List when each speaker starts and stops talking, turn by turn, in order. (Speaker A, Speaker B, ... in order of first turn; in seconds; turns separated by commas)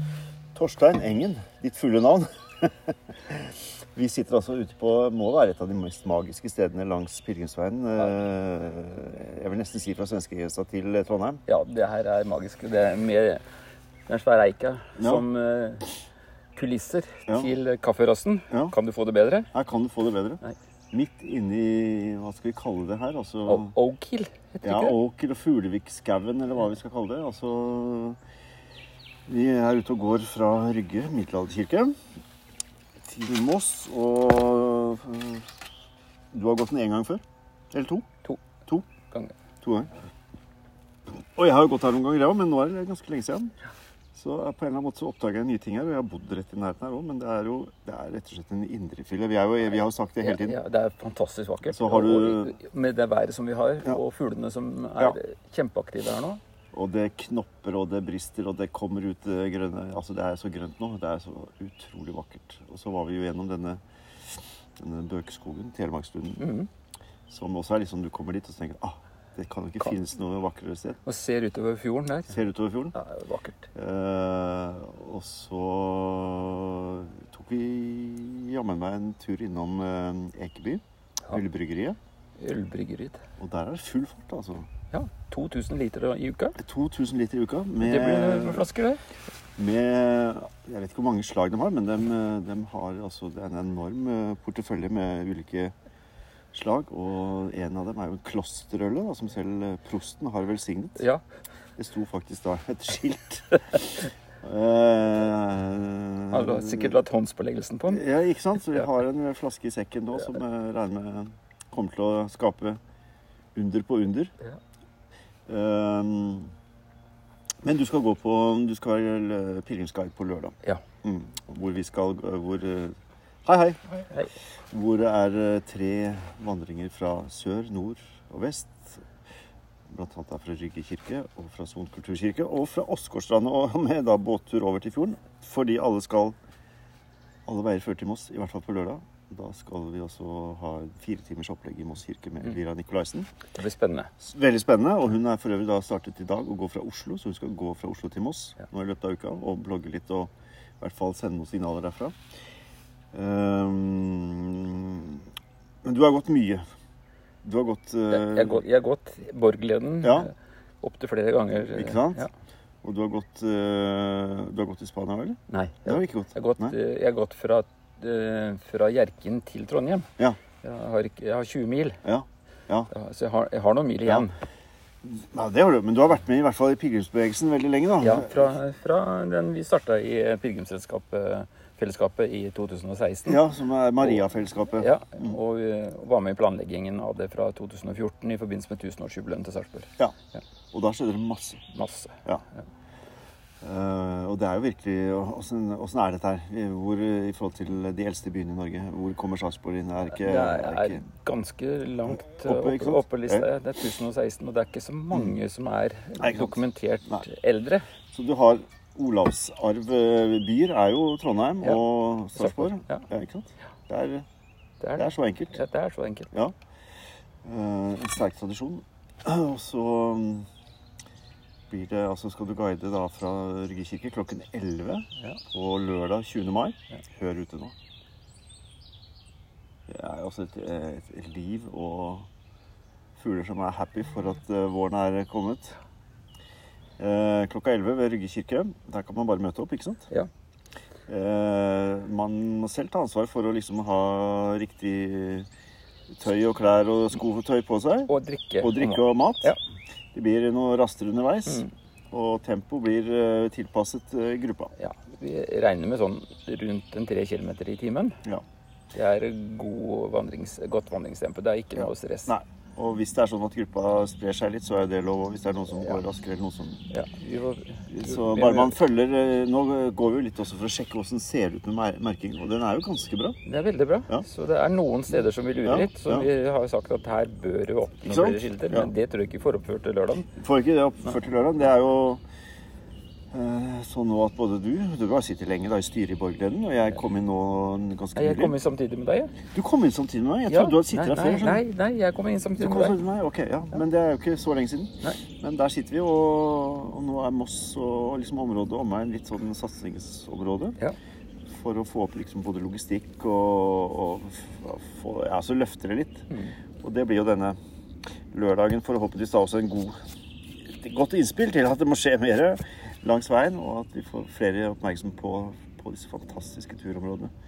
Speaker A: 0.5-11.4, Speaker B: 11.5-13.4, Speaker B: 14.1-15.9, Speaker A: 15.0-15.2, Speaker B: 16.5-19.5, Speaker A: 19.5-23.7, Speaker B: 23.4-25.0, Speaker A: 24.6-28.2, Speaker A: 29.3-31.9, Speaker A: 33.0-35.5, Speaker A: 36.3-38.1, Speaker B: 39.1-39.3, Speaker A: 39.6-39.9, Speaker A: 41.4-43.5, Speaker A: 44.1-50.6, Speaker B: 50.2-56.4, Speaker A: 51.6-52.6, Speaker A: 56.7-63.8, Speaker A: 64.3-66.5, Speaker B: 66.4-66.7, Speaker A: 67.3-71.0, Speaker B: 71.0-72.4, Speaker A: 72.3-72.9, Speaker B: 72.9-73.7, Speaker A: 73.7-82.0, Speaker B: 82.4-83.2, Speaker A: 83.4-84.7, Speaker B: 84.9-86.5, Speaker A: 86.6-88.7, Speaker B: 87.8-89.0, Speaker A: 89.6-95.7, Speaker A: 96.5-101.0, Speaker B: 101.0-101.2, Speaker A: 101.8-107.0, Speaker B: 106.3-108.0, Speaker A: 107.9-112.8, Speaker A: 113.5-114.3, Speaker A: 115.5-116.5, Speaker A: 117.6-124.0, Speaker A: 124.7-129.0, Speaker A: 129.9-136.3, Speaker A: 137.4-143.3, Speaker B: 143.5-144.1, Speaker A: 144.2-152.1, Speaker A: 153.1-155.2, Speaker A: 155.8-156.6, Speaker A: 157.4-158.6, Speaker B: 158.1-162.3, Speaker A: 160.0-160.3, Speaker A: 161.6-162.2, Speaker A: 162.8-166.8, Speaker B: 165.5-170.1, Speaker B: 170.6-172.0, Speaker A: 172.0-172.9, Speaker B: 172.9-174.3, Speaker A: 175.0-178.5, Speaker B: 178.0-183.4, Speaker A: 183.3-185.3, Speaker B: 184.8-189.9, Speaker A: 190.7-191.6, Speaker B: 191.7-192.2, Speaker A: 193.6-201.0, Speaker B: 200.1-207.8, Speaker A: 202.1-203.5, Speaker A: 206.2-207.2, Speaker A: 208.1-214.2, Speaker B: 212.3-213.1, Speaker B: 214.8-216.3, Speaker A: 215.0-215.6, Speaker A: 217.4-220.5, Speaker A: 221.7-227.7, Speaker A: 229.9-232.3, Speaker A: 233.2-235.8, Speaker A: 237.0-240.1, Speaker A: 241.1-245.5, Speaker A: 246.1-249.5, Speaker B: 248.1-249.6, Speaker A: 250.1-254.7, Speaker B: 254.8-258.2, Speaker B: 258.9-262.3, Speaker A: 261.8-266.9, Speaker B: 266.9-268.8, Speaker A: 267.9-273.4, Speaker B: 273.4-280.3, Speaker A: 275.6-276.3, Speaker A: 278.0-278.9, Speaker A: 280.4-282.2, Speaker A: 283.3-288.6, Speaker B: 288.1-289.3, Speaker A: 289.5-291.6, Speaker B: 290.5-293.0, Speaker A: 292.6-300.8, Speaker A: 301.5-306.3, Speaker A: 306.8-307.6, Speaker A: 308.3-309.9, Speaker A: 310.6-317.3